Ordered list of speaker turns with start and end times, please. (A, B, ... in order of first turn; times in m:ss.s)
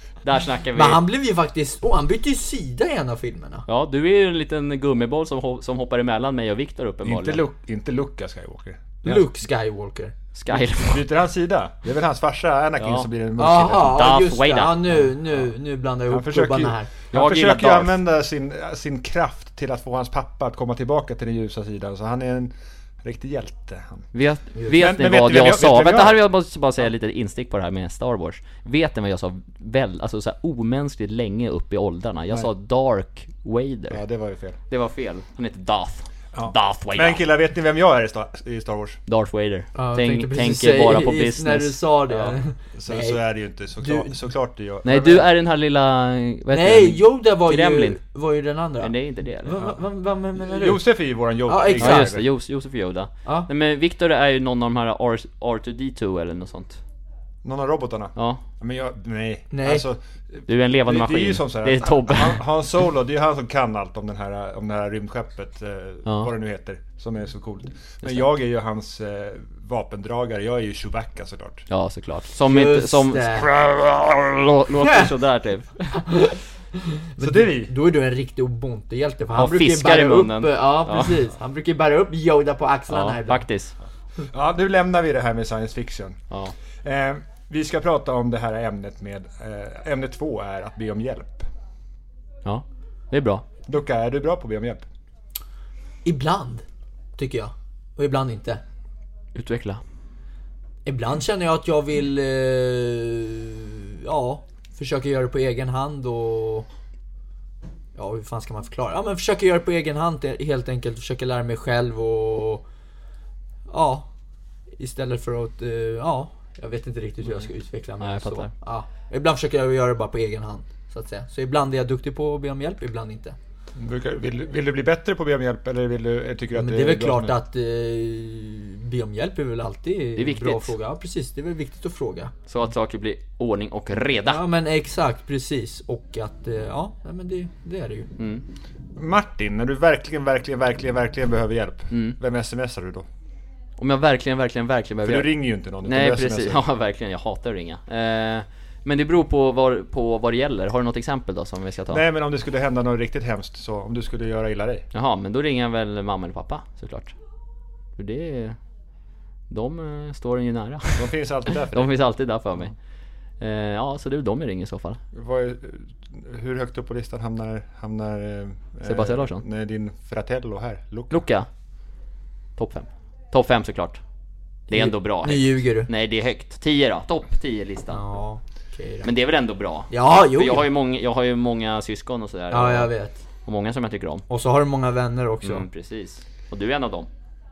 0:00.2-0:01.0 A
0:00.7-0:03.6 B
0:03.7-0:07.4 A
0:07.0-0:09.2 C
0:09.0-0:10.1 B
0:10.4-0:11.0 A
0:10.5-0:14.1 C
0:12.8-0:13.1 A
0:13.4-0:16.9 B
0:13.9-0:14.8 A
0:16.1-0:24.1 C
0:17.1-0:18.0 A
0:24.1-0:34.0 A
0:24.7-0:26.2 C
0:33.9-0:34.6 C
0:34.7-0:37.2 A
0:36.3-0:39.0 C
0:39.1-0:42.4 A
0:39.7-0:43.2 B
0:42.7-0:45.3 C
0:43.8-0:44.2 B
0:44.8-0:48.0 A
0:46.5-0:50.8 B
0:48.8-0:49.6 A
0:50.4-0:52.2 C
0:51.5-0:52.1 B
0:51.8-0:56.8 A
0:57.4-1:11.6 C
0:58.2-0:58.4 A
0:59.5-0:59.8 B
1:00.5-1:02.4 A
1:06.0-1:06.3 A
1:11.7-1:16.0 A
1:12.5-1:13.5 B
1:14.8-1:15.1 B
1:16.0-1:16.4 B
1:16.9-1:23.5 B
1:17.2-1:17.7 C
1:19.3-1:21.2 A
1:22.9-1:23.7 A
1:24.2-1:26.2 C
1:26.8-1:31.5 C
1:32.4-1:33.4 A
1:33.6-1:34.8 C
1:36.0-1:36.6 B
1:37.2-1:38.6 B
1:39.3-1:39.8 A
1:40.8-1:46.7 B
1:48.0-1:52.6 B
1:53.7-1:54.1 B
1:54.8-2:03.4 B
1:58.0-1:58.5 A
2:03.7-2:07.3 C
2:06.5-2:12.3 B
2:10.2-2:10.7 A
2:12.5-2:14.4 A
2:14.3-2:18.1 B
2:18.2-2:18.4 A
2:19.0-2:23.1 C
2:21.9-2:22.2 A
2:23.8-2:25.3 A
2:25.0-2:26.6 C
2:25.8-2:32.0 A
2:31.9-2:34.8 C
2:34.9-2:37.2 A
2:38.0-2:38.6 A
2:39.5-2:42.7 A
2:41.0-2:41.9 C
2:43.4-2:45.0 A
2:45.1-2:51.2 C
2:48.8-2:49.4 A
2:51.1-2:51.5 A
2:52.6-2:54.0 A
2:54.7-2:58.0 A
2:54.7-2:55.9 B
2:57.9-2:59.1 B
2:59.0-3:02.9 A
2:59.9-3:00.7 B
3:02.5-3:03.2 B
3:03.4-3:04.2 A
3:04.3-3:05.7 B
3:05.4-3:07.1 A